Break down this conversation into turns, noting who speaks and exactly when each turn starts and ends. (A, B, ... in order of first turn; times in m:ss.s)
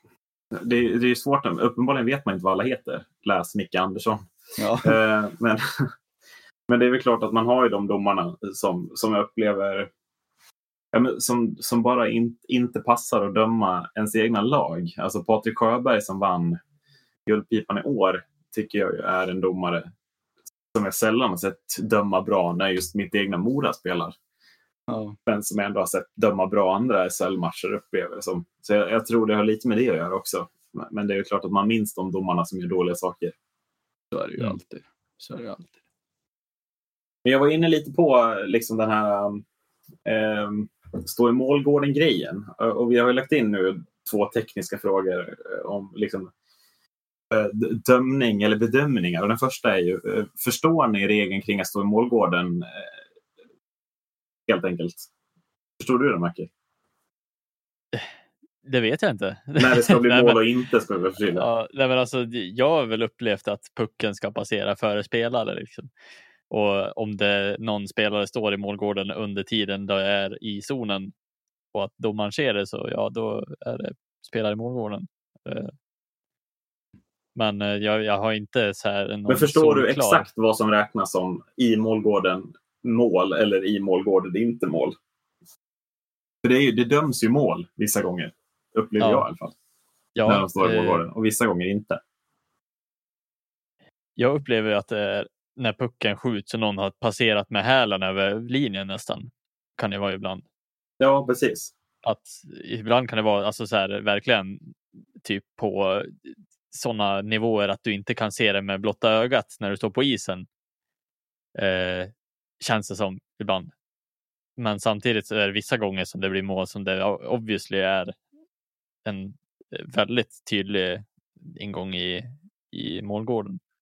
0:00.5-0:04.3 A
0:04.6-0:05.0 B
0:04.8-0:05.6 A
0:06.7-0:09.9 A
0:10.9-0:16.6 A
0:17.3-0:19.9 A
0:20.7-0:24.2 A
0:24.9-0:25.2 B
0:25.3-0:33.4 A
0:34.1-0:35.8 B
0:37.2-0:39.4 A
0:40.1-0:46.3 A
0:47.3-0:52.9 A
0:54.5-0:55.1 A
0:55.8-0:56.5 A
0:58.6-1:00.4 C
0:59.6-1:01.5 A
1:01.4-1:05.9 C
1:06.5-1:11.1 C
1:11.7-1:15.7 C
1:17.4-1:20.3 C
1:19.3-1:25.0 A
1:26.4-1:29.5 A
1:29.0-1:29.3 C
1:30.2-1:31.0 C
1:30.3-1:32.0 A
1:34.2-1:40.4 C
1:41.0-1:41.7 A
1:42.0-1:50.5 C
1:51.6-1:53.7 C
1:54.6-1:58.2 C
1:59.0-2:03.6 C